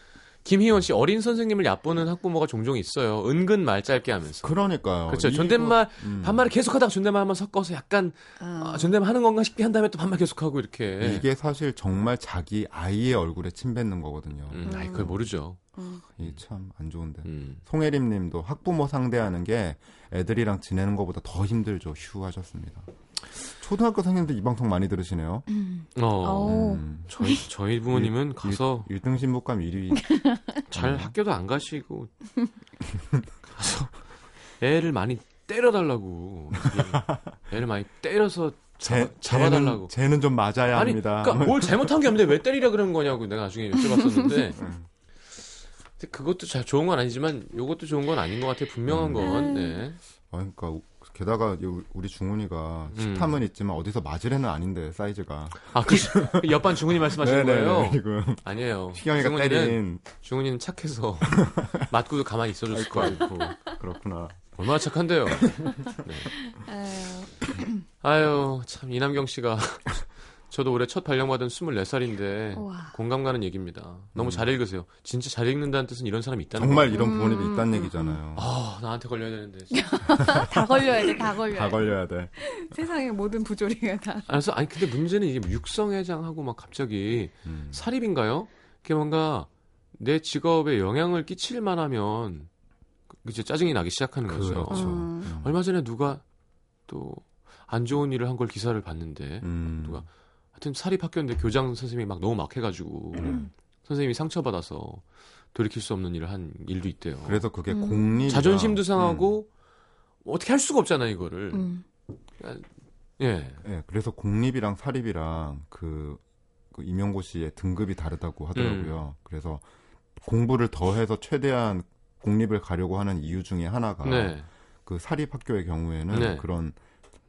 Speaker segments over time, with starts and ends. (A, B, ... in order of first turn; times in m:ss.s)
0:00.4-0:11.2 A
0:04.4-0:06.5 B
0:08.4-0:08.9 C
0:11.0-0:14.7 B
0:14.5-0:15.6 A
0:14.6-0:15.2 C
0:15.7-0:16.0 C
0:16.2-0:25.4 B
0:17.2-0:17.6 A
0:25.5-0:27.4 C
0:26.0-0:28.9 A
0:26.4-0:27.1 B
0:27.9-0:31.1 B
0:30.1-0:30.6 C
0:30.7-0:32.1 A
0:33.6-0:33.9 A
0:34.6-0:39.9 A
0:36.9-0:37.3 B
0:38.8-0:41.9 B
0:40.7-0:44.6 A
0:44.5-0:44.9 B
0:46.0-0:50.0 A
0:48.9-0:49.3 B
0:49.2-0:49.8 C
0:50.3-1:00.0 B
0:52.9-0:53.4 A
0:55.7-1:03.6 A
1:01.4-1:01.8 B
1:02.7-1:04.5 B
1:04.6-1:06.3 A
1:05.3-1:05.8 B
1:06.4-1:07.7 C
1:08.0-1:17.0 A
1:12.5-1:12.9 C
1:14.1-1:14.5 B
1:16.6-1:18.4 B
1:16.9-1:18.2 C
1:18.3-1:20.4 A
1:19.7-1:24.4 C
1:20.2-1:20.5 B
1:21.4-1:22.3 B
1:24.3-1:32.5 A
1:27.4-1:27.8 B
1:33.2-1:36.2 A
1:34.3-1:35.6 B
1:34.7-1:35.3 C
1:36.9-1:45.0 A
1:39.4-1:40.0 B
1:45.5-1:47.4 A
1:47.2-1:49.3 B
1:47.7-1:48.2 C
1:48.3-1:49.5 A
1:50.2-1:51.7 A
1:51.5-1:51.8 C
1:52.4-1:52.7 A
1:53.2-1:53.6 A
1:53.6-1:56.2 B
1:56.7-1:59.6 B
1:58.5-1:58.9 A
2:00.2-2:06.8 B
2:04.0-2:04.4 A
2:06.1-2:06.4 A